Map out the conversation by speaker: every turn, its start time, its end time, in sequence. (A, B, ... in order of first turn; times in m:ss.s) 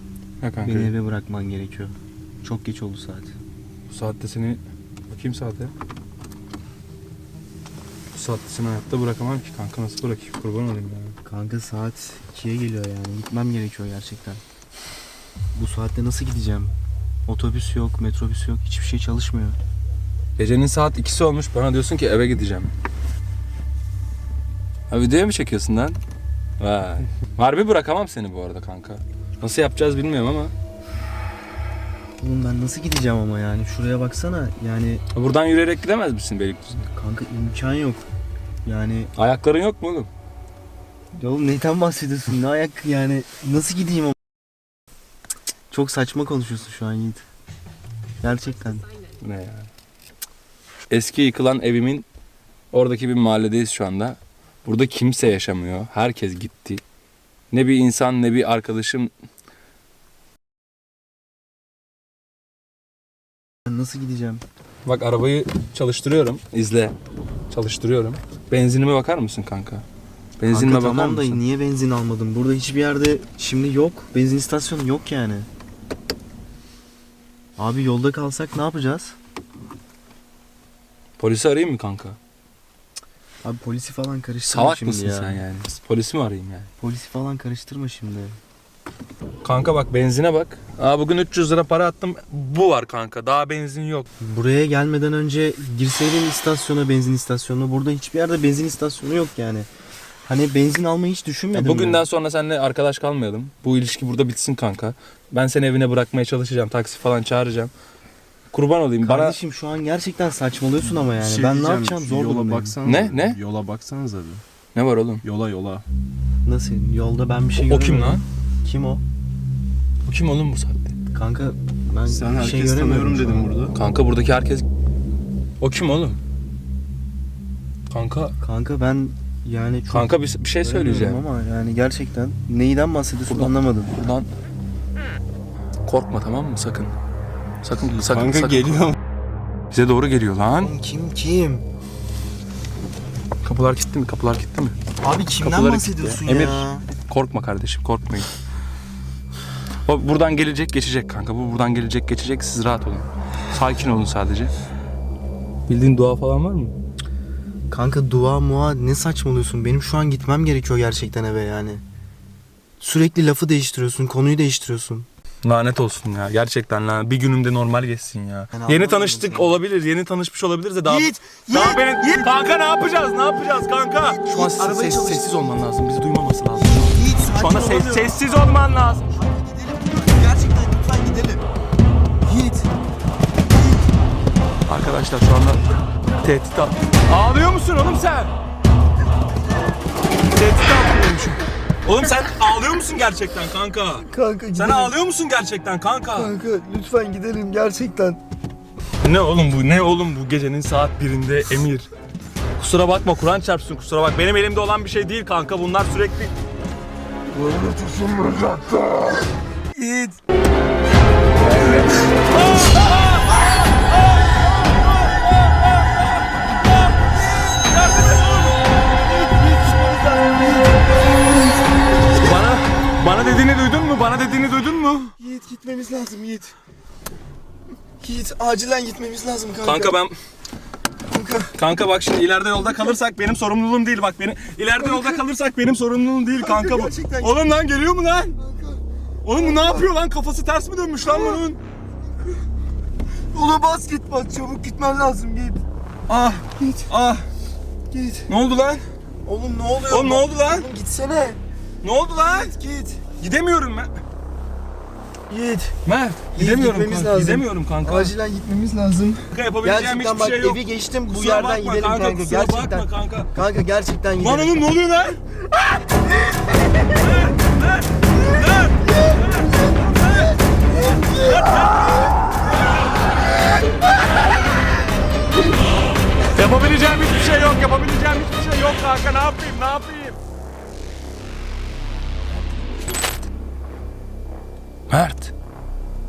0:00.4-0:00.9 A
0:00.6-0:03.3 B
0:03.9-0:05.7 A
0:08.1-0:11.2 A
0:11.2-0:14.4 B
0:15.5-0:16.7 B
0:17.2-0:19.6 B
0:20.4-0:22.7 A
0:24.9-0:26.0 A
0:26.6-0:30.5 A
0:32.2-0:35.0 B
0:35.1-0:36.9 A
0:36.9-0:38.0 B
0:38.6-0:39.1 B
0:39.2-0:40.1 A
0:41.1-0:44.2 B
0:45.7-0:47.2 B
0:48.2-0:48.9 B
0:49.2-0:49.7 A
0:50.9-0:52.0 A
0:52.7-0:56.8 A
0:57.5-0:59.1 A
1:03.6-1:04.4 B
1:04.8-1:06.9 A
1:07.5-1:09.8 A
1:10.4-1:11.4 A
1:10.5-1:15.5 B
1:17.6-1:19.2 B
1:21.2-1:22.2 A
1:23.4-1:25.4 B
1:24.4-1:26.7 A
1:26.8-1:28.4 B
1:29.4-1:34.1 A
1:34.2-1:39.7 B
1:40.2-1:42.0 B
1:41.5-1:47.7 A
1:48.5-1:49.4 A
1:49.0-1:52.8 B
1:51.2-1:54.4 C
1:52.8-1:53.4 A
1:54.7-1:55.2 A
1:55.2-1:55.8 C
1:56.4-1:59.0 B
1:57.6-1:58.2 A
2:00.0-2:01.0 A
2:01.1-2:03.6 B
2:02.0-2:03.7 C
2:03.7-2:04.7 A
2:05.6-2:06.2 A
2:07.9-2:08.3 A
2:08.4-2:14.0 B
2:09.9-2:11.2 A
2:13.3-2:14.3 A
2:15.8-2:16.9 A
2:17.6-2:19.0 A
2:18.6-2:18.9 C
2:19.7-2:20.7 A
2:20.6-2:21.6 B
2:23.4-2:24.8 A
2:25.0-2:26.8 B
2:25.4-2:28.3 A
2:29.8-2:34.5 A
2:35.7-2:36.8 A
2:37.7-2:41.8 B
2:42.8-2:45.1 B
2:45.4-2:59.1 A
2:48.5-2:49.6 B
2:50.8-2:52.3 B
2:54.0-2:55.6 B
2:56.6-2:58.4 B
2:59.1-3:01.4 B
3:02.2-3:02.7 B
3:04.6-3:05.6 A
3:06.2-3:08.3 A
3:10.3-3:16.3 A
3:14.0-3:14.9 B
3:16.1-3:18.2 B
3:19.0-3:21.9 A
3:22.6-3:26.3 A
3:27.3-3:29.2 A
3:29.8-3:30.2 A
3:32.3-3:36.0 A
3:37.6-3:38.6 A
3:39.0-3:40.8 B
3:42.2-3:45.1 A
3:45.2-3:46.5 B
3:48.0-3:50.0 B
3:49.6-3:50.2 A
3:51.1-3:51.6 B
3:51.5-3:58.4 A
3:54.8-3:55.2 B
3:56.4-3:57.5 B
3:58.4-3:59.9 B
3:59.2-4:01.6 A
4:01.0-4:01.4 B
4:03.3-4:05.6 B
4:06.1-4:07.2 A
4:06.6-4:06.9 B
4:07.9-4:08.3 B
4:08.3-4:08.8 A
4:09.2-4:11.4 B
4:09.9-4:10.7 A
4:11.8-4:12.5 A
4:12.1-4:13.0 B
4:13.2-4:14.0 A
4:15.3-4:15.7 B
4:15.8-4:18.1 A
4:16.3-4:24.6 B
4:19.3-4:23.3 A
4:24.2-4:25.2 A
4:26.9-4:30.4 A
4:28.9-4:29.7 B
4:30.8-4:32.0 B
4:31.0-4:32.3 A
4:36.3-4:40.2 A
4:44.9-4:45.3 A